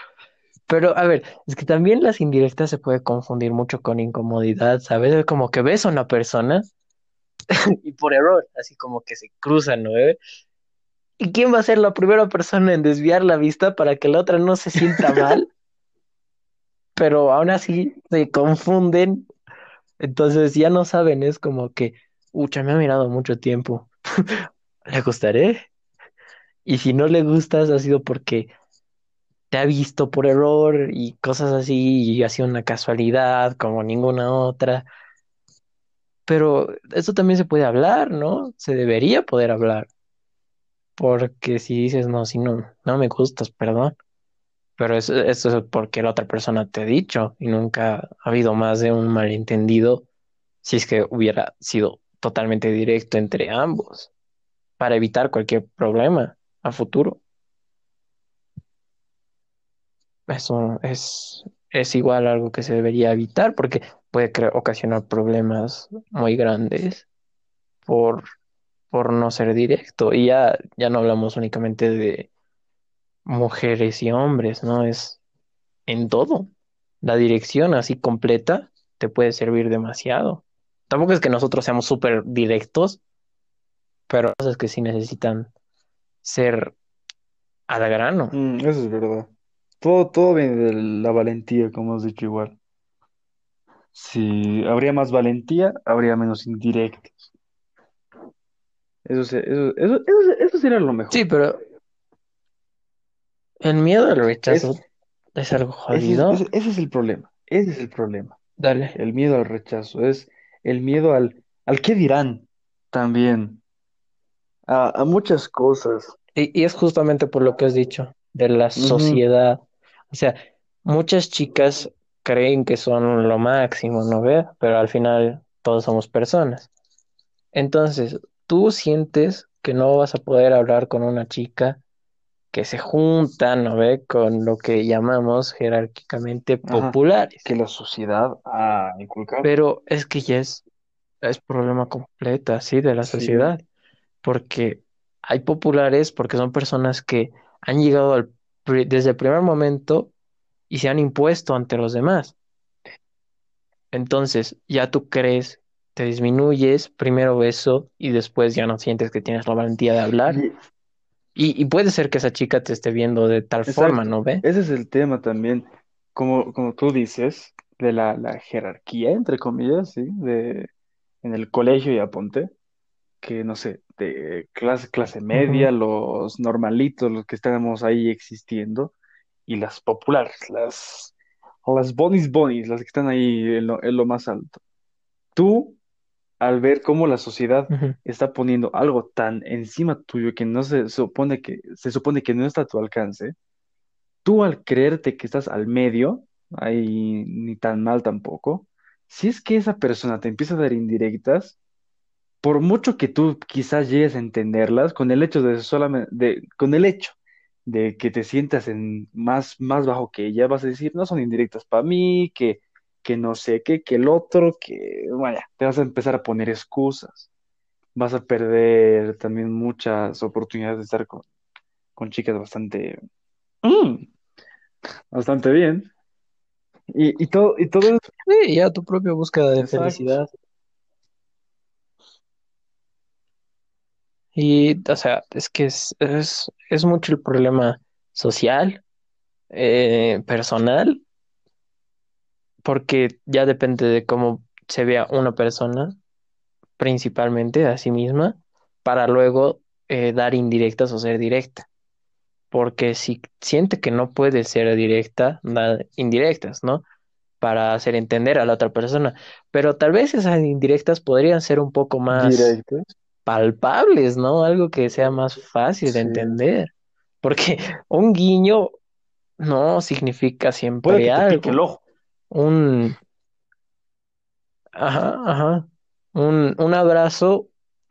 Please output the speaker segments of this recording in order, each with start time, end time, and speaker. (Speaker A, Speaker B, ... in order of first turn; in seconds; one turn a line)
Speaker A: 0.7-6.7
Speaker A: 7.5-10.2
Speaker A: 11.2-15.5
Speaker B: 14.8-15.3
Speaker A: 16.9-19.2
Speaker A: 20.0-24.3
Speaker A: 24.9-25.6
Speaker A: 26.6-28.5
Speaker A: 29.5-34.9
Speaker A: 36.3-39.9
Speaker A: 41.0-43.9
Speaker A: 44.8-50.0
Speaker A: 50.6-54.1
Speaker A: 54.8-57.2
Speaker A: 60.3-67.0
Speaker A: 67.8-68.2
Speaker A: 68.9-72.3
Speaker A: 73.3-75.2
Speaker A: 75.8-76.5
Speaker A: 77.0-83.0
Speaker A: 84.1-85.5
Speaker A: 86.2-86.7
Speaker A: 87.7-88.4
Speaker B: 88.3-89.3
Speaker B: 89.8-92.6
Speaker B: 93.9-97.3
Speaker B: 99.0-101.2
Speaker A: 101.1-101.6
Speaker A: 103.6-104.8
Speaker B: 104.5-104.7
Speaker A: 105.3-106.4
Speaker B: 105.9-108.4
Speaker A: 108.6-108.9
Speaker B: 108.9-113.6
Speaker B: 114.7-116.1
Speaker A: 116.3-126.7
Speaker B: 118.8-119.2
Speaker A: 127.5-131.8
Speaker A: 132.5-137.5
Speaker B: 136.6-139.5
Speaker A: 139.4-140.6
Speaker A: 141.2-143.6
Speaker B: 143.0-143.5
Speaker A: 144.2-150.1
Speaker A: 150.7-152.3
Speaker A: 153.9-160.4
Speaker B: 160.2-160.5
Speaker A: 161.3-164.4
Speaker B: 163.7-170.7
Speaker B: 171.2-172.5
Speaker B: 173.2-178.9
Speaker A: 175.3-175.7
Speaker B: 179.5-181.1
Speaker B: 181.6-184.6
Speaker B: 185.3-185.8
Speaker B: 186.4-193.3
Speaker A: 187.7-187.9
Speaker B: 194.2-201.6
Speaker B: 202.4-217.3
Speaker B: 217.9-221.2
Speaker B: 222.0-223.0
Speaker B: 223.6-224.1
Speaker B: 225.1-225.9
Speaker B: 226.9-228.1
Speaker A: 228.3-230.3
Speaker B: 229.6-230.2
Speaker A: 234.3-238.8
Speaker A: 239.5-241.0
Speaker A: 242.6-246.0
Speaker A: 246.8-251.7
Speaker A: 252.5-256.8
Speaker A: 257.4-262.6
Speaker B: 262.1-262.9
Speaker A: 263.2-266.7
Speaker B: 265.9-266.4
Speaker A: 267.2-268.7
Speaker A: 269.4-271.6
Speaker B: 270.8-271.8
Speaker A: 272.3-273.0
Speaker A: 274.8-277.5